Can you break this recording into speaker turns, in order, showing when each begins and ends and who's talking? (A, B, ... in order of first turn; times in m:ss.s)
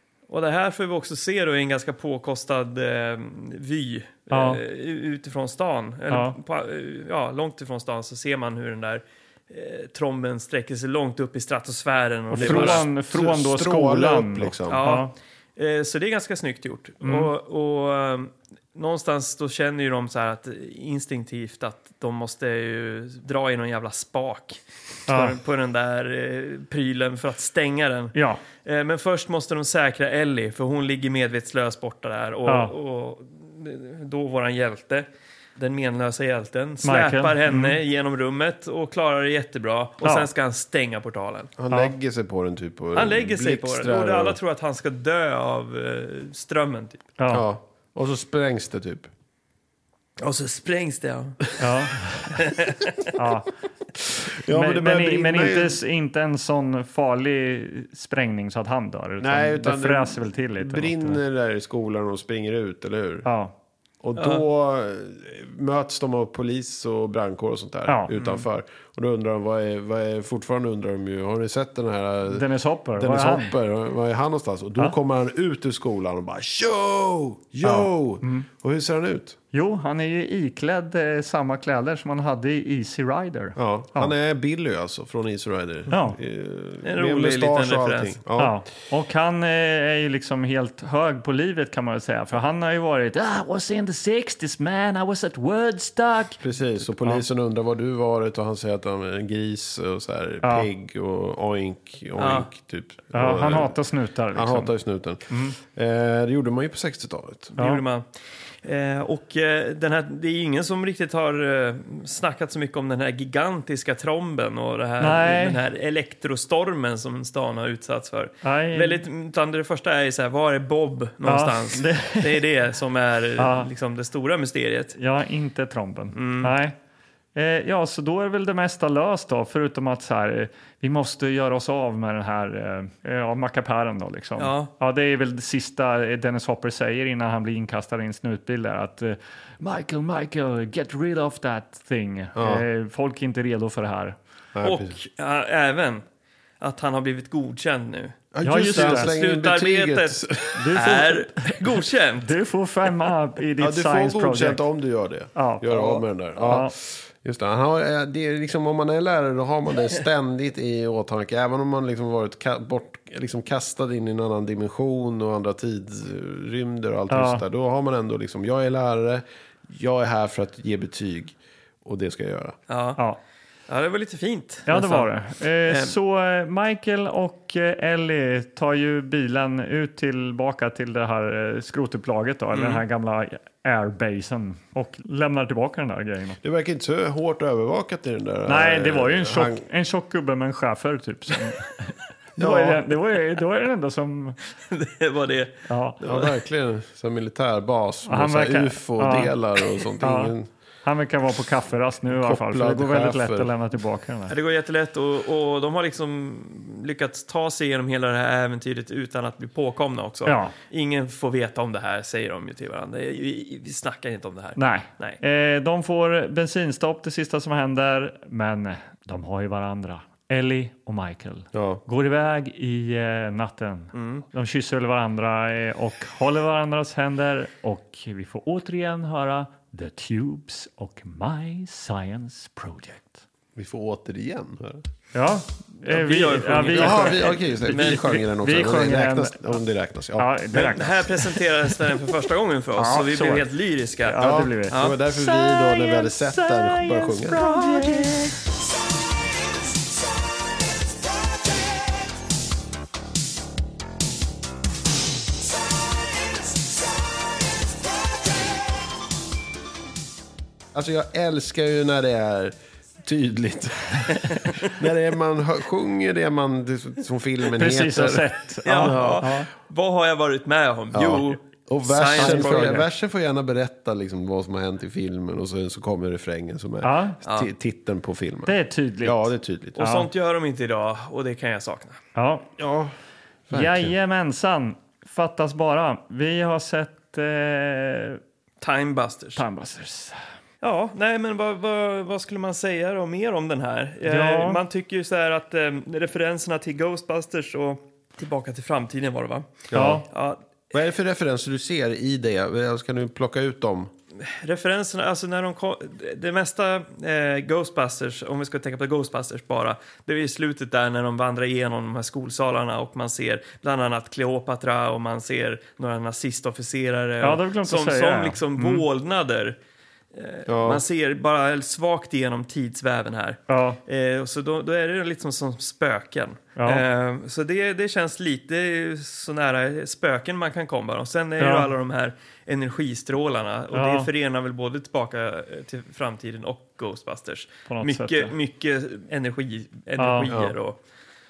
0:00.3-0:12.9 A
0:04.3-0:04.6 B
0:06.1-0:06.4 B
0:12.3-0:15.1 B
0:12.4-0:14.8 C
0:14.7-0:41.5 A
0:17.0-0:17.3 B
0:25.1-0:25.4 B
0:28.2-0:28.4 B
0:32.5-0:32.7 B
0:36.8-0:37.8 B
0:41.6-0:44.4 C
0:43.0-0:47.1 A
0:47.2-0:47.5 B
0:47.3-0:49.1 C
0:50.2-0:51.6 A
0:51.6-0:52.3 B
0:52.3-0:53.1 A
0:53.2-0:53.5 B
0:54.3-0:55.8 C
0:54.5-1:01.2 B
0:59.2-1:03.3 C
1:03.2-1:03.5 B
1:04.0-1:19.4 C
1:04.2-1:04.4 A
1:07.9-1:08.1 B
1:08.1-1:08.4 A
1:12.3-1:13.5 B
1:17.6-1:18.5 B
1:19.5-1:24.1 B
1:23.6-1:28.6 C
1:25.9-1:26.2 B
1:26.8-1:28.2 A
1:28.4-1:36.4 B
1:36.4-1:43.8 C
1:40.4-1:40.7 B
1:42.2-1:42.5 A
1:43.1-1:44.7 B
1:44.3-1:47.5 C
1:45.3-1:45.6 B
1:47.6-1:48.1 A
1:48.6-2:05.0 A
1:55.0-1:55.6 B
1:58.4-1:59.0 B
2:01.3-2:02.4 B
2:03.4-2:03.7 B
2:05.0-2:06.8 B
2:06.1-2:06.6 A
2:07.4-2:24.2 B
2:14.4-2:14.7 A
2:22.4-2:22.6 C
2:24.6-2:25.0 C
2:24.6-2:26.0 A
2:26.6-2:32.3 A
2:28.3-2:30.7 C
2:28.4-2:29.1 B
2:30.6-2:31.6 B
2:32.2-2:34.6 B
2:33.6-2:52.6 C
2:35.4-2:36.7 B
2:47.1-2:47.4 B
2:52.7-2:53.0 A
2:53.7-2:55.2 A
2:54.7-3:06.4 B
2:55.7-2:56.0 A
3:02.5-3:02.8 A
3:06.4-3:09.6 C
3:08.5-3:14.4 B
3:12.4-3:12.8 C
3:14.7-3:16.3 A
3:15.7-3:16.0 B
3:16.0-3:20.5 C
3:18.1-3:19.4 B
3:20.0-3:24.3 B
3:22.1-3:23.5 C
3:24.3-3:35.2 A
3:30.3-3:30.5 B
3:34.6-3:53.2 B
3:41.5-3:41.8 C
3:43.9-3:44.3 A
3:53.6-3:54.8 C
3:55.1-3:59.5 B
3:55.8-3:58.1 A
3:56.7-4:00.8 C
4:00.2-4:01.3 B
4:00.5-4:05.0 A
4:02.8-4:03.4 B
4:04.0-4:08.4 B
4:04.2-4:07.6 C
4:20.7-4:29.3 C
4:27.6-4:29.5 B
4:28.6-4:32.8 A
4:30.9-4:39.8 C
4:32.2-4:32.8 B
4:36.8-4:37.2 B
4:38.5-4:40.1 B
4:39.8-4:42.0 A
4:42.2-4:42.5 B
4:42.6-4:42.9 C
4:43.5-4:44.0 C
4:43.5-4:48.2 B
4:48.6-4:49.4 A
4:49.4-4:50.2 B
4:50.6-5:00.4 A
4:54.1-4:54.6 B
4:59.7-5:00.0 C
4:59.7-5:00.0 B
5:00.7-5:03.9 C
5:04.2-5:19.6 A
5:17.2-5:18.8 B
5:20.1-5:40.8 A
5:20.5-5:20.8 C
5:23.5-5:23.8 B
5:26.6-5:26.8 B
5:31.4-5:31.7 B
5:33.7-5:34.1 B
5:37.7-5:38.3 B
5:40.0-5:40.3 B
5:40.3-5:40.6 C